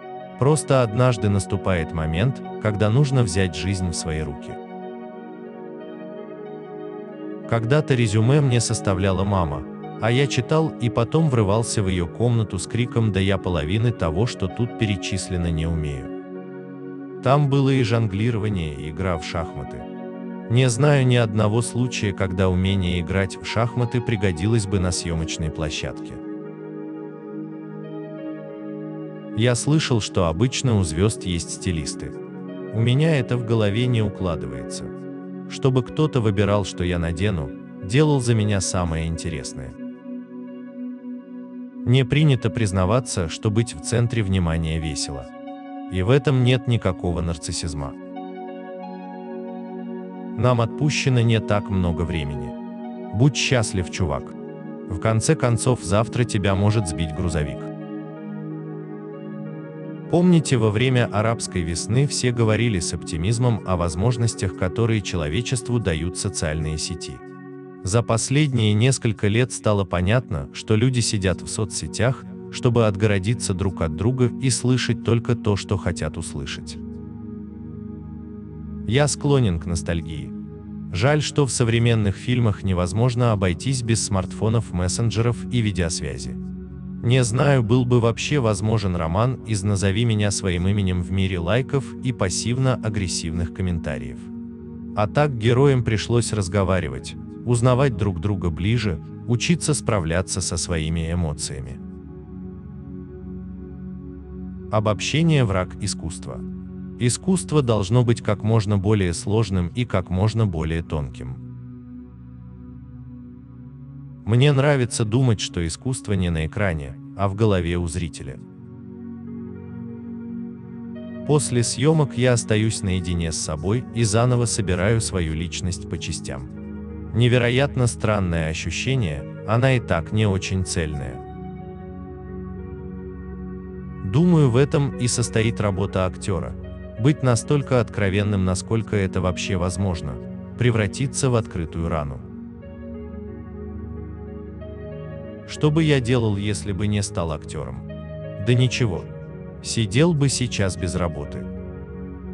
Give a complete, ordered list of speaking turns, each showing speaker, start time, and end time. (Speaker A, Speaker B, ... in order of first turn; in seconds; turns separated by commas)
Speaker A: 0.4-4.6, Speaker A: 7.5-16.1, Speaker A: 17.2-19.9, Speaker A: 20.5-26.2, Speaker A: 29.3-32.1, Speaker A: 32.7-34.9, Speaker A: 35.5-39.7, Speaker A: 41.8-45.3, Speaker A: 45.9-48.0, Speaker A: 50.3-52.5, Speaker A: 53.1-54.4, Speaker A: 54.9-57.7, Speaker A: 60.1-67.2, Speaker A: 67.8-76.8, Speaker A: 78.8-80.3, Speaker A: 80.9-86.4, Speaker A: 87.0-94.3, Speaker A: 94.9-101.8, Speaker A: 104.7-106.4, Speaker A: 107.0-111.4, Speaker A: 114.2-118.4, Speaker A: 121.2-126.5, Speaker A: 127.1-131.2, Speaker A: 134.0-142.3, Speaker A: 145.4-151.5